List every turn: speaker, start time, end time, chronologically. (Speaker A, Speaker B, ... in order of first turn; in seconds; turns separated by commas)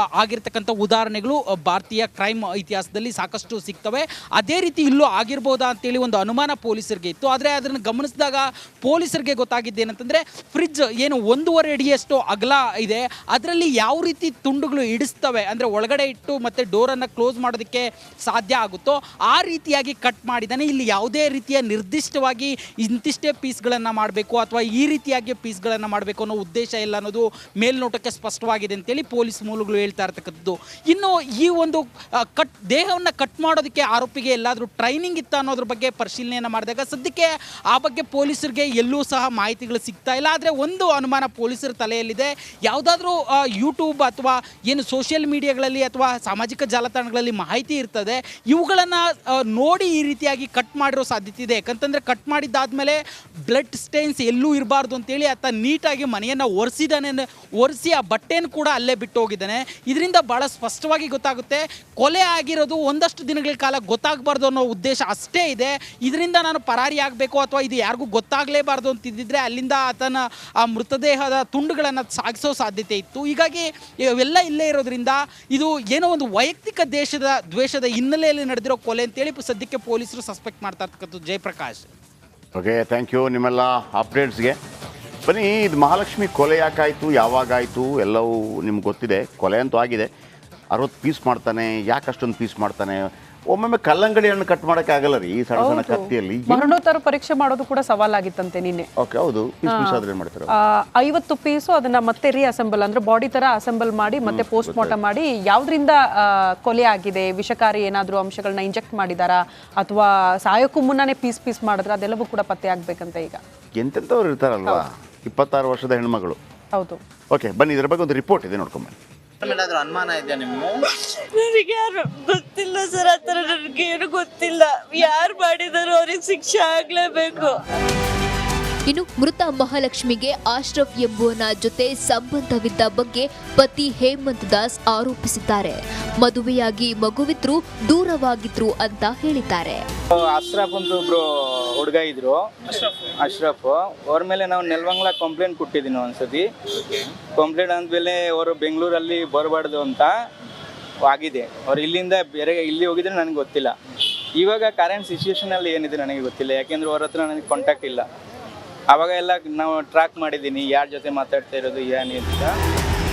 Speaker A: 0.1-31.8, Speaker A: 32.3-81.9, Speaker B: 82.5-84.6, Speaker B: 85.3-90.1, Speaker B: 90.7-96.7, Speaker C: 95.6-98.9, Speaker B: 99.0-100.5, Speaker C: 99.7-100.0, Speaker C: 100.6-113.4, Speaker B: 104.2-105.0, Speaker B: 113.8-116.4, Speaker C: 116.7-117.0, Speaker B: 117.3-118.9, Speaker D: 121.3-127.6, Speaker E: 128.9-139.8, Speaker F: 140.3-146.4, Speaker F: 147.4-150.1, Speaker F: 151.1-153.7, Speaker F: 154.4-158.0, Speaker F: 158.9-162.5